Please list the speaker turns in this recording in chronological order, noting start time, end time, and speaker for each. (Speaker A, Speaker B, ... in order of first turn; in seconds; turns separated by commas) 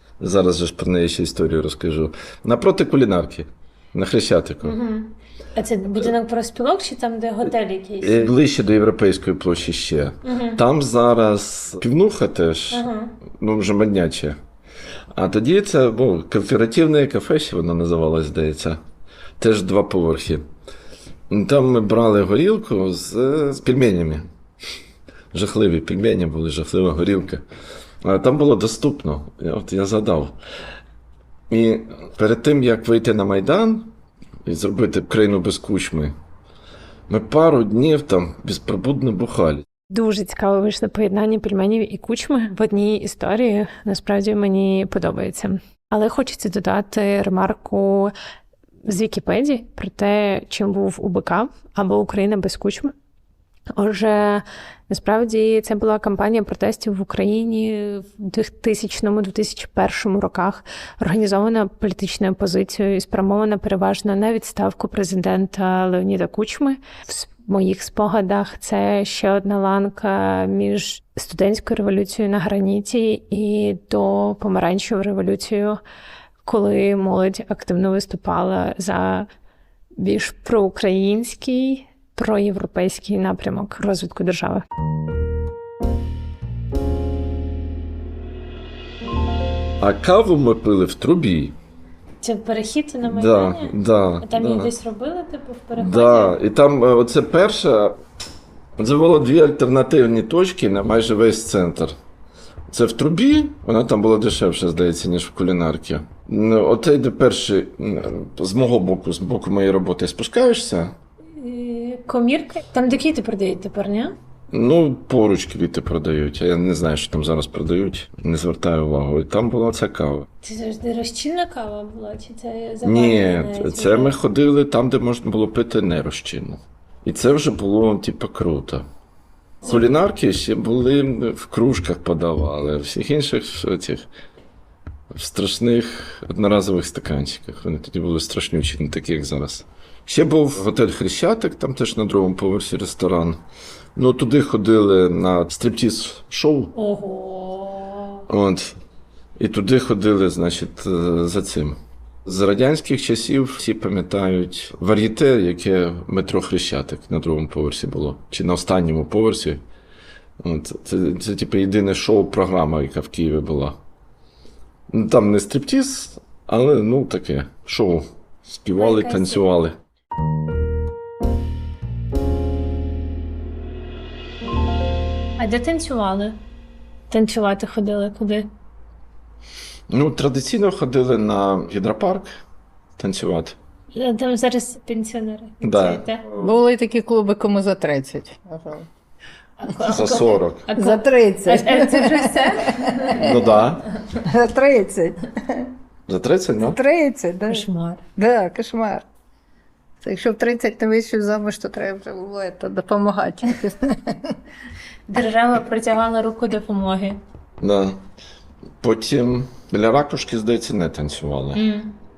Speaker A: 0.2-4.8, Speaker B: 4.6-8.3, Speaker A: 8.0-14.4, Speaker B: 10.2-10.6, Speaker B: 12.7-13.2, Speaker A: 15.1-18.8, Speaker A: 19.4-20.4, Speaker A: 21.3-24.2, Speaker A: 25.3-27.4, Speaker A: 28.0-30.4, Speaker A: 31.5-33.9, Speaker A: 34.5-36.1, Speaker A: 37.1-39.6, Speaker C: 39.9-48.1, Speaker C: 48.9-52.9, Speaker C: 53.8-75.8, Speaker C: 76.5-79.3, Speaker C: 80.0-84.7, Speaker A: 89.8-91.6, Speaker B: 92.2-96.4, Speaker A: 93.1-94.7, Speaker A: 95.7-98.0, Speaker A: 98.8-102.0, Speaker A: 102.7-111.0, Speaker B: 111.4-114.2, Speaker A: 114.5-120.3, Speaker B: 120.4-124.2, Speaker A: 122.8-128.8, Speaker A: 129.6-134.1, Speaker A: 135.1-143.4, Speaker A: 144.0-146.7, Speaker B: 146.8-148.2, Speaker A: 148.3-148.8, Speaker A: 149.4-159.6, Speaker A: 160.4-163.8, Speaker A: 164.9-169.8, Speaker B: 168.8-169.4, Speaker B: 175.4-176.4, Speaker B: 177.1-178.5, Speaker A: 179.9-182.3, Speaker A: 183.0-183.6, Speaker B: 183.9-186.3, Speaker A: 185.6-186.1, Speaker D: 186.3-188.9, Speaker B: 189.6-193.3, Speaker A: 189.8-190.7, Speaker D: 190.8-193.4, Speaker A: 193.2-193.9, Speaker D: 194.2-195.7, Speaker A: 196.1-196.8, Speaker D: 196.6-197.7, Speaker B: 197.5-198.0, Speaker D: 198.2-199.1, Speaker D: 200.0-204.4, Speaker B: 205.1-207.2, Speaker A: 207.6-208.0, Speaker A: 208.8-211.6, Speaker B: 211.6-212.0